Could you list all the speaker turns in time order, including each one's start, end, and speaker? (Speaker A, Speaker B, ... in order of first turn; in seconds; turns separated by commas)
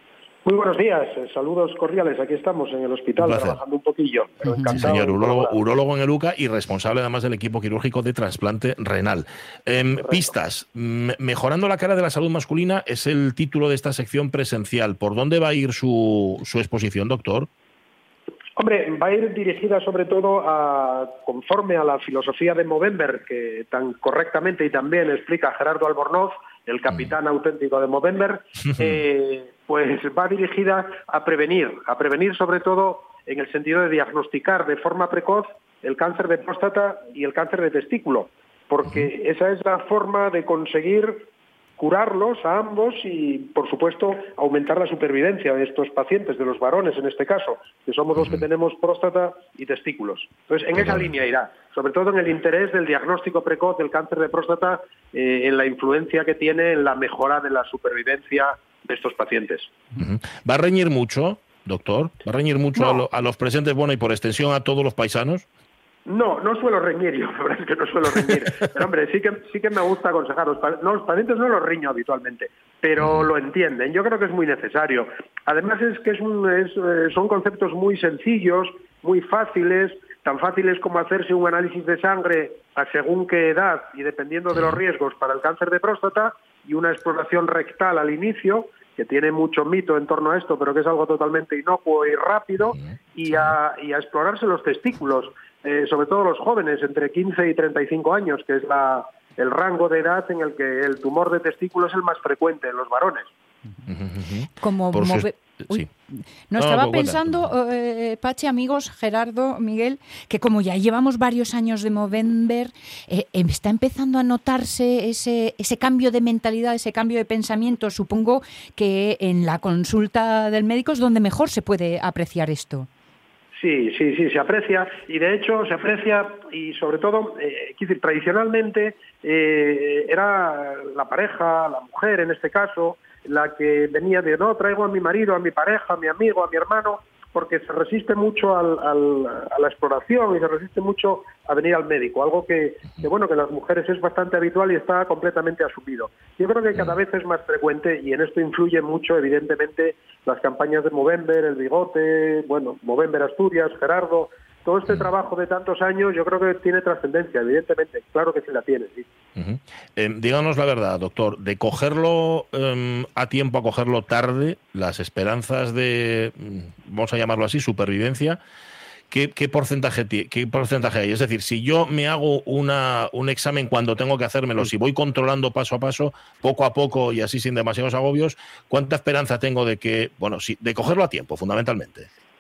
Speaker A: 0.5-5.6, Speaker B: 3.2-3.6, Speaker B: 4.7-17.5, Speaker A: 18.6-41.3, Speaker A: 41.8-59.7, Speaker B: 48.2-48.4, Speaker B: 50.7-51.1, Speaker B: 60.0-65.5, Speaker A: 66.1-103.3, Speaker B: 73.0-73.3, Speaker B: 84.5-84.8, Speaker B: 103.9-105.9, Speaker C: 104.6-105.9, Speaker C: 106.5-122.9, Speaker B: 106.6-107.5, Speaker A: 123.6-159.1, Speaker B: 159.4-168.4, Speaker B: 169.1-182.1